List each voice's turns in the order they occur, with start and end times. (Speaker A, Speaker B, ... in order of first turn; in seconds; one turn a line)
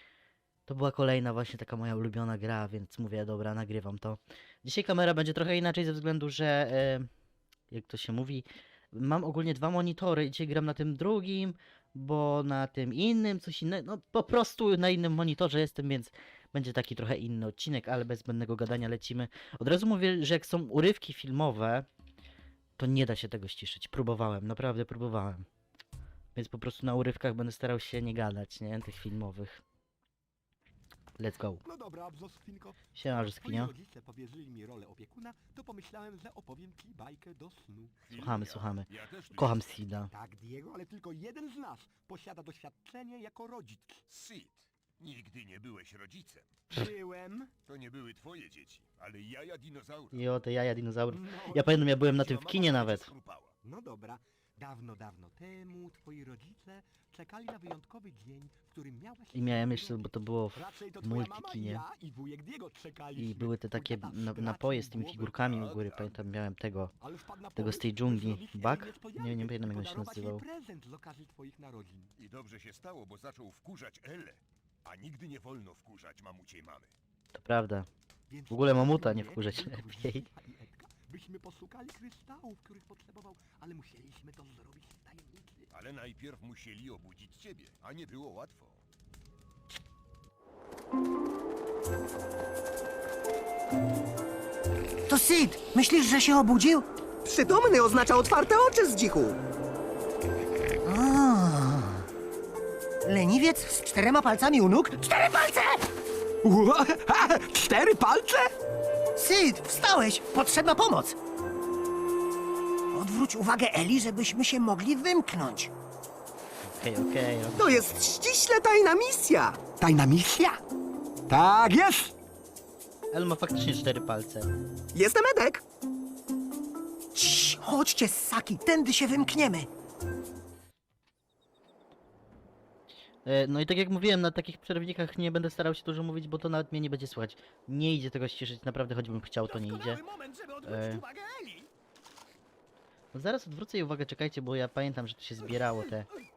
Speaker A: 0.7-7.1
Speaker A: 7.7-21.9
Speaker A: 22.8-25.5
Speaker A: 26.3-29.6
Speaker A: 31.2-31.6
Speaker B: 31.6-38.0
Speaker A: 33.0-33.7
Speaker C: 38.0-39.8
Speaker A: 38.1-40.1
Speaker B: 40.1-44.0
Speaker C: 44.1-46.6
Speaker B: 46.7-47.5
Speaker C: 47.6-50.3
Speaker A: 50.1-53.1
Speaker B: 51.1-51.9
Speaker C: 51.8-53.5
Speaker B: 53.6-65.4
Speaker A: 59.3-61.8
Speaker A: 63.1-66.9
Speaker C: 65.3-66.2
Speaker B: 67.0-72.1
Speaker A: 67.5-70.4
Speaker C: 72.2-76.9
Speaker A: 77.3-77.9
Speaker B: 78.3-85.7
Speaker A: 78.5-80.2
Speaker C: 85.7-88.8
Speaker D: 95.1-96.8
Speaker E: 97.2-99.4
Speaker D: 100.8-102.0
Speaker D: 103.0-105.8
Speaker B: 106.4-108.5
Speaker D: 109.2-111.2
Speaker D: 112.9-115.7
Speaker A: 116.6-117.9
Speaker E: 117.6-119.6
Speaker B: 119.8-120.6
Speaker B: 121.3-122.1
Speaker A: 123.1-124.5
Speaker E: 124.9-125.6
Speaker D: 127.1-129.7
Speaker A: 133.2-140.0
Speaker D: 139.4-141.7
Speaker A: 140.6-141.0
Speaker A: 143.1-146.1